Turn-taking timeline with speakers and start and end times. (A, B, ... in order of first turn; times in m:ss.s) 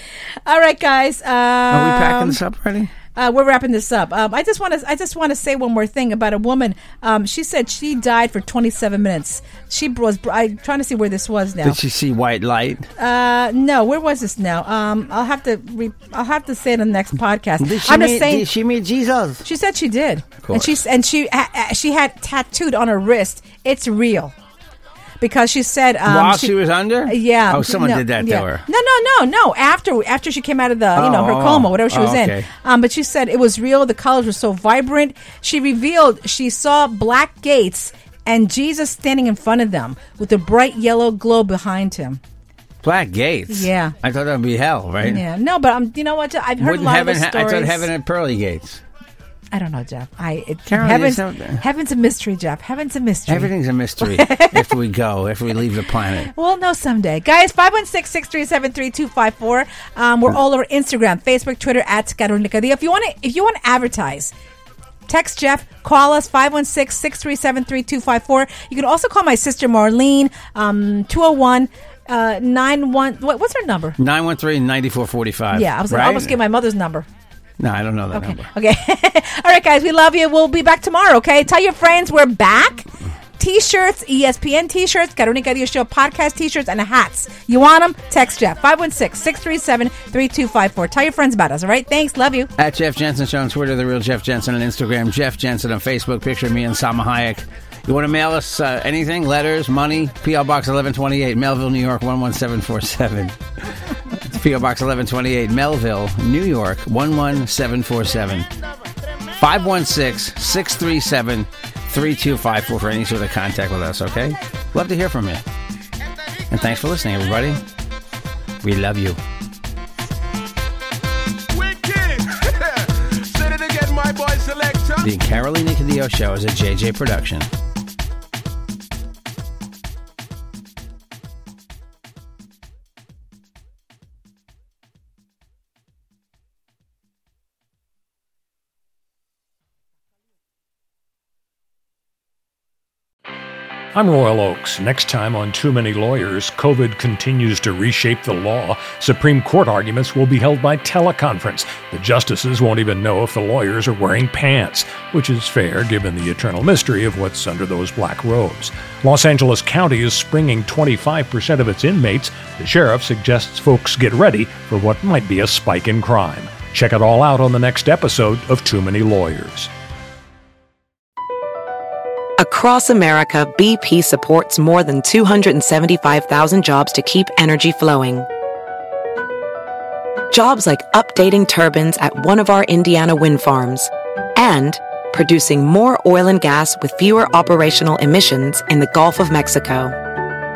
0:00.4-0:02.4 A
0:01.7-0:02.9 B
0:03.1-0:11.8 A
0:11.6-0:12.9 B
0:13.0-0:18.4 A
0:17.6-0:19.4 B
0:19.4-0:24.3 A
0:20.4-0:20.8 B
0:25.2-0:26.5 A
0:26.0-0:28.6 B
0:27.0-0:42.2 A
0:30.9-0:32.5 B
0:42.8-0:45.2 B
0:43.5-0:43.9 A
0:45.0-0:47.9 A
0:46.6-0:48.8 B
0:49.5-0:54.7 A
0:50.7-0:51.6 B
0:53.3-0:56.3 B
0:56.3-1:04.3 A
1:05.1-1:14.0 A
1:14.0-1:16.3 B
1:15.5-1:17.1 A
1:17.6-1:18.5 B
1:18.1-1:32.5 A
1:32.6-1:43.4 B
1:44.1-1:48.5 B
1:49.4-1:55.4 B
1:56.5-1:57.6 B
1:58.6-1:59.2 B
2:01.5-2:05.1 C
2:05.0-2:07.5 B
2:23.9-2:49.7 D
2:52.4-2:58.3 E
3:00.3-3:10.0 E